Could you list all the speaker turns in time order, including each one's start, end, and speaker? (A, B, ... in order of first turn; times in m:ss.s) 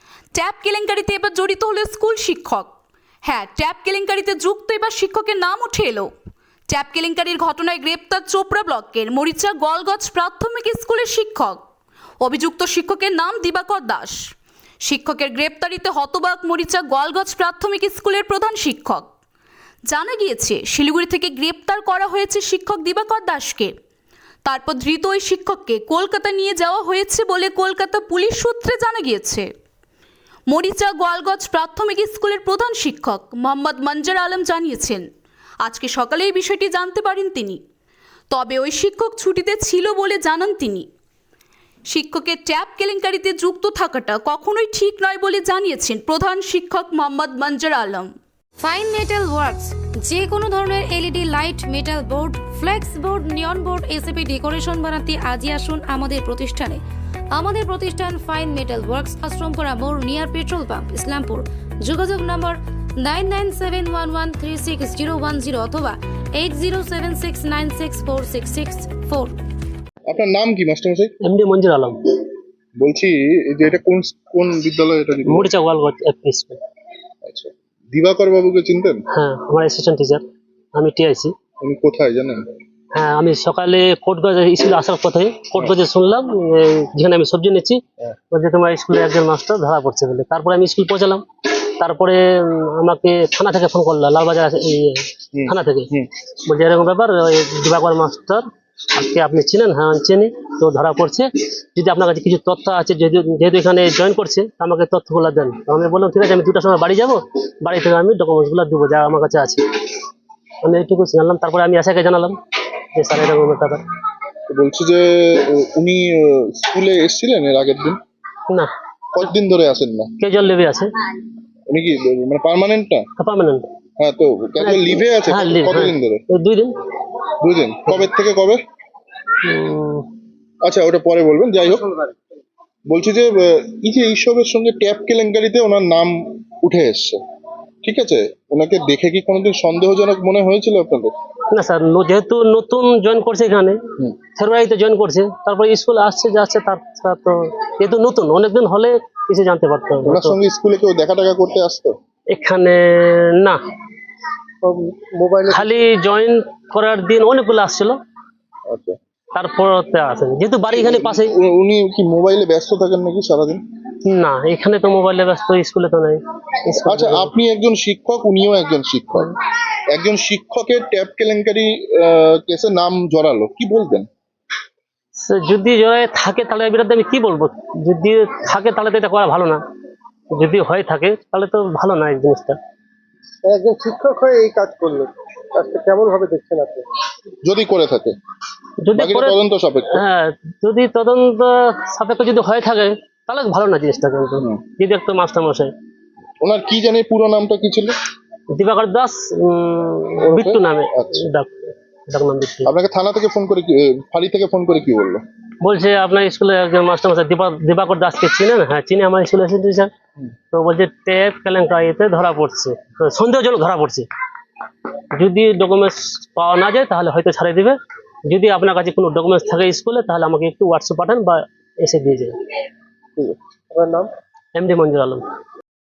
0:00.3-0:02.7 A
0:03.2-0:06.1 A
0:06.7-0:11.6 A
0:12.2-0:14.2 A
0:14.8-0:19.1 A
0:19.8-0:23.7 A
0:24.4-0:29.5 A
0:30.5-0:35.0 A
0:35.6-0:37.6 A
0:38.3-0:40.8 A
0:41.9-0:48.1 A
0:48.6-0:56.8 B
0:57.3-1:09.3 B
1:10.1-1:11.1 C
1:11.2-1:12.1 D
1:12.8-1:15.5 C
1:15.3-1:16.6 D
1:17.2-1:19.0 C
1:19.1-1:20.2 D
1:20.8-1:21.3 D
1:21.6-1:22.4 C
1:22.9-1:49.9 D
1:35.3-1:36.1 C
1:50.6-1:52.4 D
1:52.9-1:53.8 D
1:54.5-1:58.0 C
1:59.1-2:00.1 C
2:00.2-2:00.9 D
2:01.7-2:03.0 C
2:03.2-2:03.7 D
2:04.0-2:06.2 C
2:04.6-2:06.7 D
2:07.4-2:08.6 C
2:09.4-2:10.1 D
2:10.6-2:12.1 C
2:12.9-2:17.2 C
2:17.8-2:21.1 C
2:21.5-2:23.8 D
2:24.4-2:30.4 D
2:30.0-2:31.9 C
2:32.3-2:33.6 D
2:34.6-2:35.7 E
2:35.5-2:38.0 D
2:38.7-2:39.0 C
2:39.3-2:41.3 D
2:40.7-2:43.6 C
2:44.0-2:47.3 D
2:46.8-2:49.4 C
2:49.9-2:54.0 C
2:55.2-2:59.6 D
3:00.3-3:02.6 D
3:03.4-3:06.8 E
3:07.4-3:08.1 C
3:08.8-3:09.4 D
3:08.9-3:10.0 C
3:09.9-3:15.7 D
3:16.4-3:17.9 C
3:18.5-3:21.5 D
3:20.2-3:21.3 C
3:22.1-3:22.7 D
3:22.6-3:25.2 C
3:25.6-3:29.9 D
3:30.5-3:34.0 D
3:35.1-3:37.8 D
3:38.3-3:42.3 D
3:43.3-3:44.1 E
3:44.5-3:45.2 D